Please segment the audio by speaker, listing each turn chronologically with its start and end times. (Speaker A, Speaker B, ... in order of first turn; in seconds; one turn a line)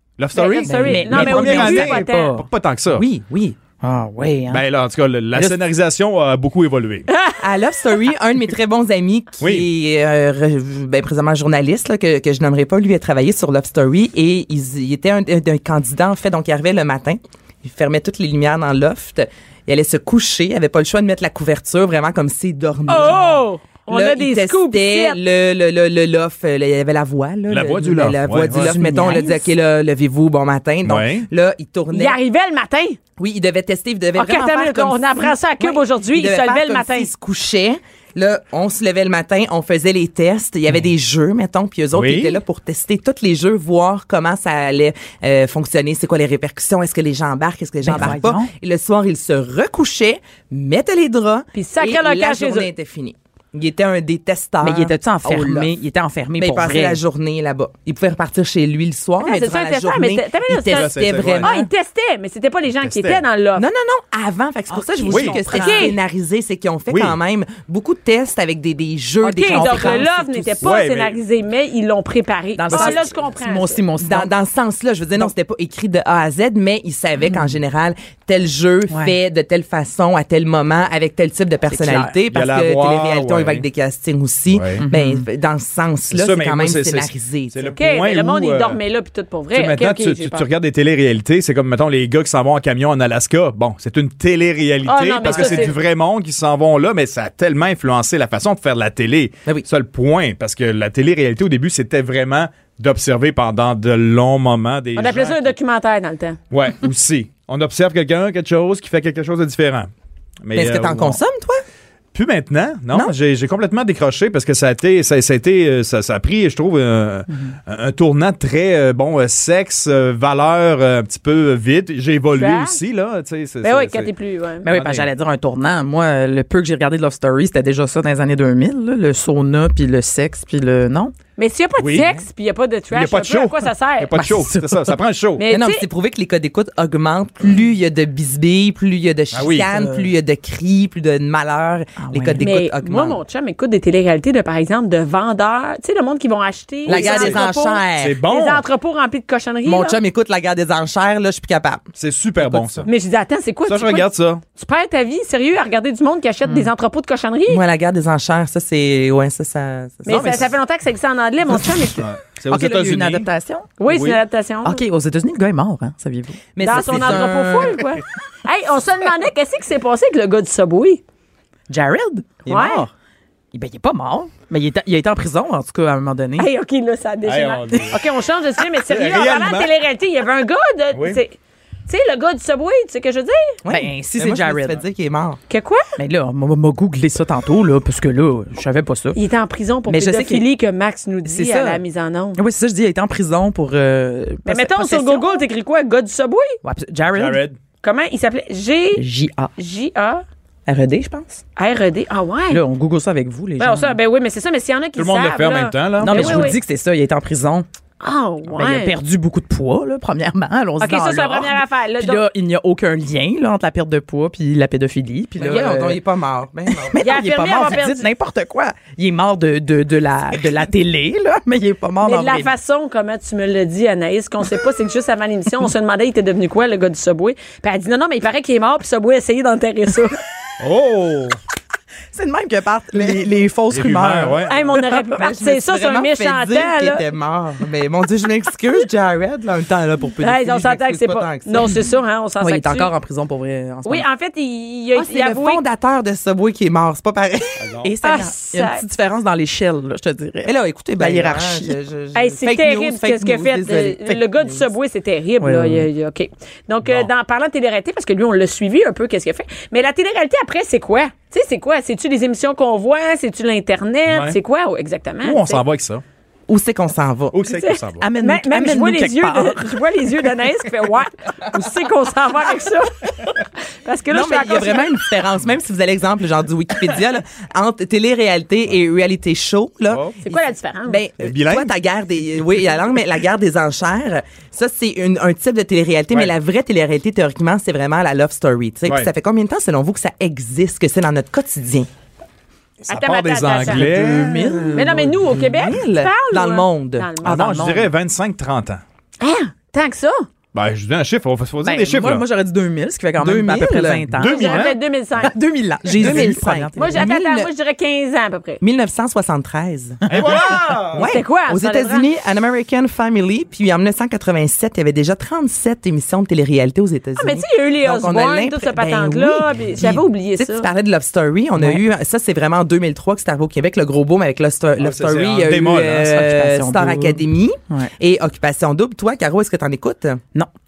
Speaker A: 0.2-3.0
Speaker B: 0.3-2.4
Speaker C: 0.7-1.7
Speaker D: 0.8-2.5
Speaker C: 2.9-3.6
Speaker D: 3.8-4.6
Speaker A: 4.5-7.1
Speaker B: 7.1-7.4
Speaker C: 7.4-32.2
Speaker A: 9.4-9.7
Speaker B: 22.9-25.2
Speaker A: 27.5-28.8
Speaker D: 28.5-29.5
Speaker A: 30.8-31.3
Speaker B: 31.9-33.0
Speaker C: 33.2-55.7
Speaker B: 34.2-37.1
Speaker A: 41.9-42.4
Speaker D: 47.8-48.5
Speaker B: 51.5-52.7
Speaker D: 54.6-57.0
Speaker C: 56.4-61.7
Speaker B: 59.2-63.6
Speaker A: 60.7-61.5
Speaker A: 62.7-63.2
Speaker C: 63.6-70.1
Speaker D: 64.7-65.9
Speaker A: 65.1-65.4
Speaker B: 65.5-66.0
Speaker A: 66.9-67.2
Speaker B: 69.2-73.8
Speaker D: 69.4-70.5
Speaker A: 70.6-71.2
Speaker D: 72.5-74.3
Speaker C: 74.0-87.8
Speaker D: 78.9-79.1
Speaker D: 81.7-82.2
Speaker A: 82.3-83.6
Speaker A: 84.5-84.8
Speaker D: 84.8-85.2
Speaker A: 86.1-88.8
Speaker B: 87.8-90.5
Speaker A: 89.5-105.5
Speaker B: 94.8-95.7
Speaker C: 95.2-95.7
Speaker B: 105.0-106.4
Speaker A: 106.5-109.9
Speaker A: 110.4-111.2
Speaker C: 110.5-111.6
Speaker A: 112.1-124.1
Speaker B: 122.3-122.8
Speaker B: 123.6-124.7
Speaker D: 124.6-131.1
Speaker A: 124.7-125.1
Speaker B: 131.4-134.2
Speaker A: 131.8-132.1
Speaker A: 132.9-135.4
Speaker D: 134.1-135.0
Speaker B: 135.4-135.8
Speaker C: 135.5-143.2
Speaker A: 139.3-139.7
Speaker D: 139.7-140.1
Speaker D: 142.0-142.5
Speaker B: 142.4-150.0
Speaker C: 146.8-148.2
Speaker A: 146.9-147.4
Speaker A: 148.0-148.7
Speaker C: 149.6-151.8
Speaker A: 152.0-152.9
Speaker D: 152.4-152.8
Speaker B: 152.8-157.6
Speaker A: 153.7-154.4
Speaker C: 157.5-160.5
Speaker B: 160.1-162.1
Speaker D: 160.1-160.5
Speaker A: 161.9-163.3
Speaker D: 162.5-163.7
Speaker B: 163.8-164.8
Speaker A: 163.9-164.2
Speaker D: 164.6-167.3
Speaker C: 166.5-167.9
Speaker B: 166.6-171.0
Speaker D: 171.7-172.9
Speaker B: 172.5-172.8
Speaker C: 172.5-172.8
Speaker D: 173.5-176.5
Speaker B: 176.4-183.6
Speaker A: 177.2-178.0
Speaker A: 178.9-179.7
Speaker A: 180.9-181.2
Speaker C: 183.6-185.4
Speaker D: 183.7-184.8
Speaker B: 185.5-185.8
Speaker D: 186.0-189.2
Speaker B: 189.1-192.4
Speaker D: 189.9-190.4
Speaker D: 191.2-191.8
Speaker D: 192.3-195.4
Speaker B: 194.4-196.6
Speaker D: 196.6-197.4
Speaker A: 197.1-197.6
Speaker B: 197.8-199.0
Speaker D: 198.9-199.5
Speaker B: 199.6-200.2
Speaker D: 200.7-201.4
Speaker B: 201.6-202.6
Speaker D: 202.5-204.0
Speaker B: 203.6-206.6
Speaker A: 204.9-206.5
Speaker D: 206.0-207.7
Speaker B: 208.0-208.9
Speaker D: 208.5-216.0
Speaker B: 210.8-212.2
Speaker C: 215.4-217.0
Speaker D: 216.7-222.5
Speaker B: 217.0-218.1
Speaker B: 222.0-230.2
Speaker A: 230.6-231.4
Speaker D: 232.1-234.5
Speaker A: 233.7-234.7
Speaker B: 234.5-237.0
Speaker C: 234.8-241.8
Speaker B: 240.2-242.9
Speaker D: 242.4-244.1
Speaker B: 243.8-245.6
Speaker C: 244.9-247.7
Speaker A: 247.6-247.9
Speaker D: 247.8-251.7
Speaker B: 248.0-248.8
Speaker C: 250.4-254.6
Speaker B: 252.1-265.6
Speaker D: 255.4-255.9
Speaker A: 256.8-257.1
Speaker A: 264.1-264.4
Speaker A: 265.2-266.0
Speaker C: 266.5-267.4
Speaker A: 267.3-268.1
Speaker B: 267.4-275.0
Speaker D: 268.0-269.8
Speaker C: 274.1-291.9
Speaker A: 279.9-280.1
Speaker B: 280.2-281.0
Speaker A: 281.2-281.7
Speaker B: 292.9-293.9
Speaker A: 292.9-294.4
Speaker D: 293.6-295.4
Speaker C: 294.4-297.1
Speaker B: 294.7-297.6
Speaker D: 297.2-297.9
Speaker A: 297.2-298.8
Speaker B: 299.2-300.2
Speaker A: 300.5-302.2
Speaker D: 301.6-307.1
Speaker C: 303.2-304.1
Speaker A: 304.1-304.8
Speaker B: 304.2-305.3
Speaker C: 305.9-307.5
Speaker A: 306.0-306.3
Speaker B: 306.8-308.6
Speaker C: 308.6-310.1
Speaker A: 310.1-311.1
Speaker D: 310.1-310.3
Speaker C: 310.9-330.2
Speaker B: 311.0-312.1
Speaker B: 317.2-320.7
Speaker D: 321.6-321.8
Speaker A: 324.8-326.2
Speaker D: 326.0-327.9